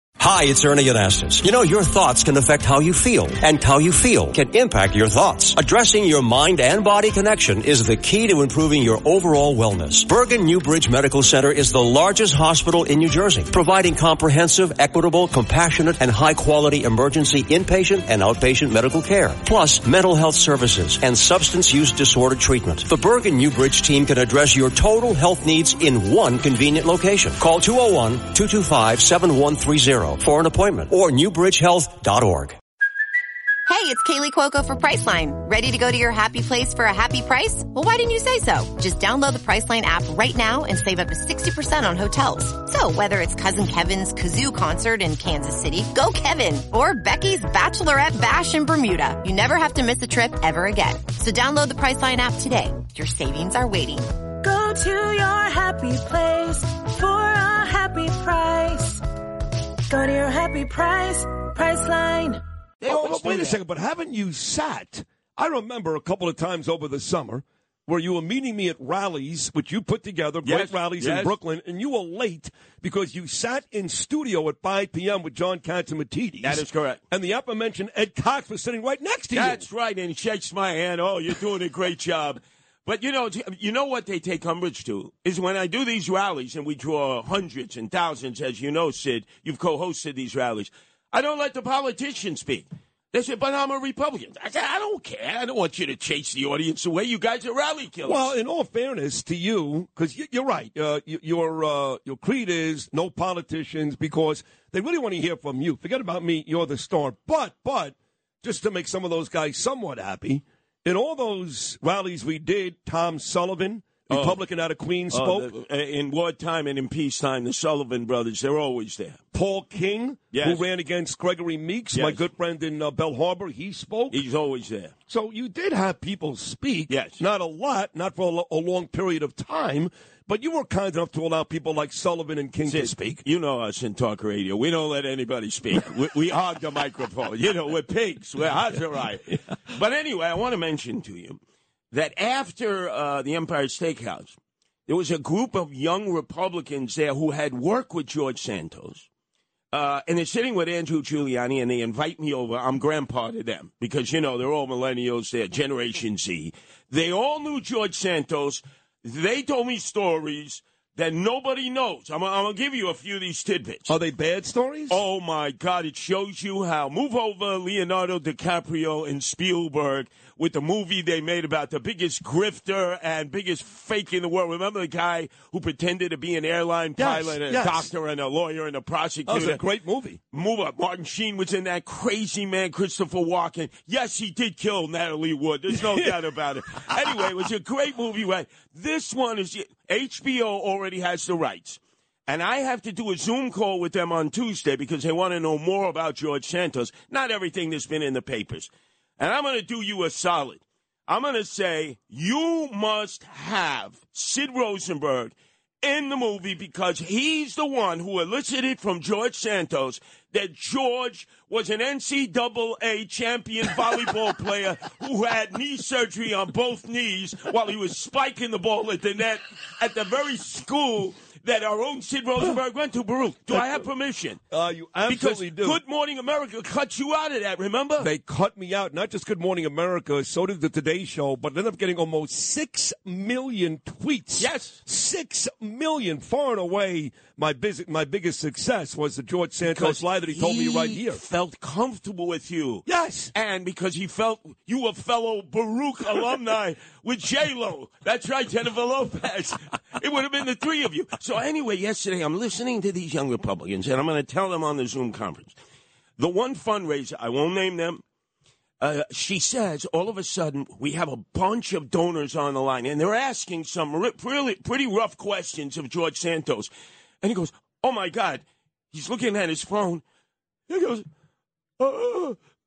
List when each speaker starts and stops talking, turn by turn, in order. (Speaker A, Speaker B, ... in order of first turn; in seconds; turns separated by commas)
Speaker A: 0.2-32.6, Speaker B: 33.7-54.1, Speaker C: 54.4-59.0, Speaker C: 59.9-62.4, Speaker D: 62.8-63.6, Speaker E: 62.8-79.7, Speaker D: 70.4-71.3, Speaker D: 76.4-77.0, Speaker D: 79.3-98.3, Speaker E: 98.0-115.5, Speaker D: 114.1-114.4, Speaker D: 115.1-119.2, Speaker E: 119.3-124.2, Speaker D: 120.3-120.6, Speaker D: 121.9-122.3, Speaker D: 124.1-124.9, Speaker E: 125.1-133.2, Speaker D: 126.9-127.2, Speaker D: 132.6-141.4, Speaker D: 141.9-149.1, Speaker D: 149.7-163.9, Speaker E: 163.9-165.0, Speaker D: 164.9-179.6, Speaker E: 177.0-177.9, Speaker E: 179.2-180.2, Speaker D: 180.3-224.4, Speaker E: 223.5-223.8, Speaker E: 224.5-225.8, Speaker D: 225.1-228.1, Speaker E: 228.0-241.2, Speaker D: 234.4-234.8, Speaker D: 239.6-255.6, Speaker E: 242.8-243.3, Speaker D: 256.2-258.0, Speaker D: 258.8-266.7, Speaker D: 267.2-270.0, Speaker D: 270.7-271.1, Speaker D: 271.8-272.4